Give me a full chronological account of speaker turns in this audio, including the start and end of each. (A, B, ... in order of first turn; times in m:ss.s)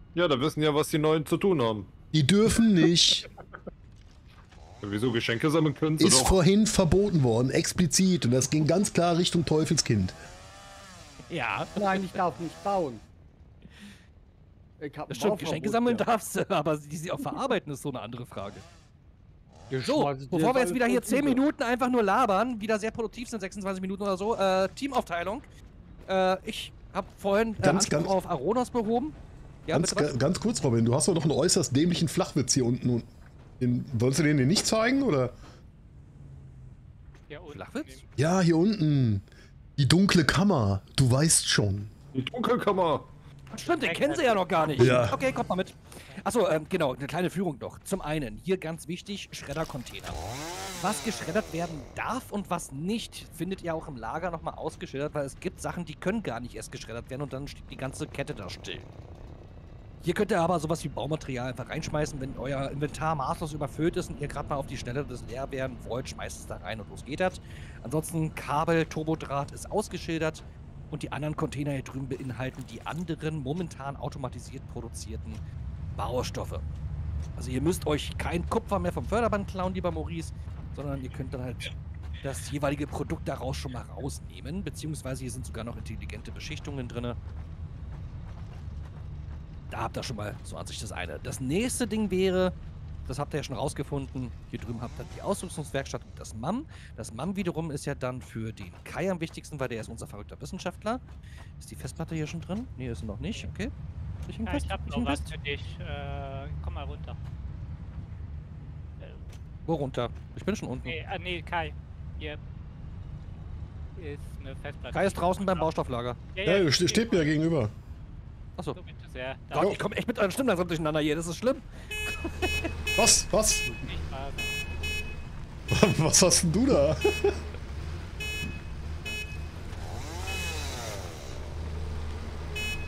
0:00.2-0:01.9 A
0:02.1-0:03.3 B
0:04.8-0:06.4 A
0:06.0-0:10.2 B
0:11.3-0:12.2 C
0:11.8-0:13.0 D
0:14.8-0:16.1 D
0:15.1-0:18.6 C
0:19.7-0:21.4 D
0:19.8-0:25.5 C
0:26.1-0:30.2 C
0:27.6-0:28.1 B
0:29.7-0:35.3 B
0:37.3-0:38.1 E
0:37.5-0:38.0 C
0:38.2-0:39.3 B
0:39.8-0:41.9 B
0:42.1-0:43.1 A
0:43.5-0:50.2 C
0:43.8-0:45.1 E
0:44.8-0:45.2 B
0:50.8-0:58.9 C
1:00.0-1:15.4 C
1:16.0-1:16.6 C
1:17.4-1:27.2 C
1:29.7-1:32.6 C
1:33.1-1:41.0 C
1:41.6-1:43.7 C
1:44.3-1:45.3 C
1:44.4-1:47.2 E
1:49.7-1:51.0 C
1:50.8-1:52.4 E
1:54.0-1:55.7 E
1:54.9-1:56.2 C
1:56.3-1:57.4 E
1:56.4-1:57.7 B
1:58.7-1:59.8 E
1:59.5-2:02.7 C
2:03.0-2:03.7 B
2:03.8-2:04.5 E
2:05.7-2:07.4 B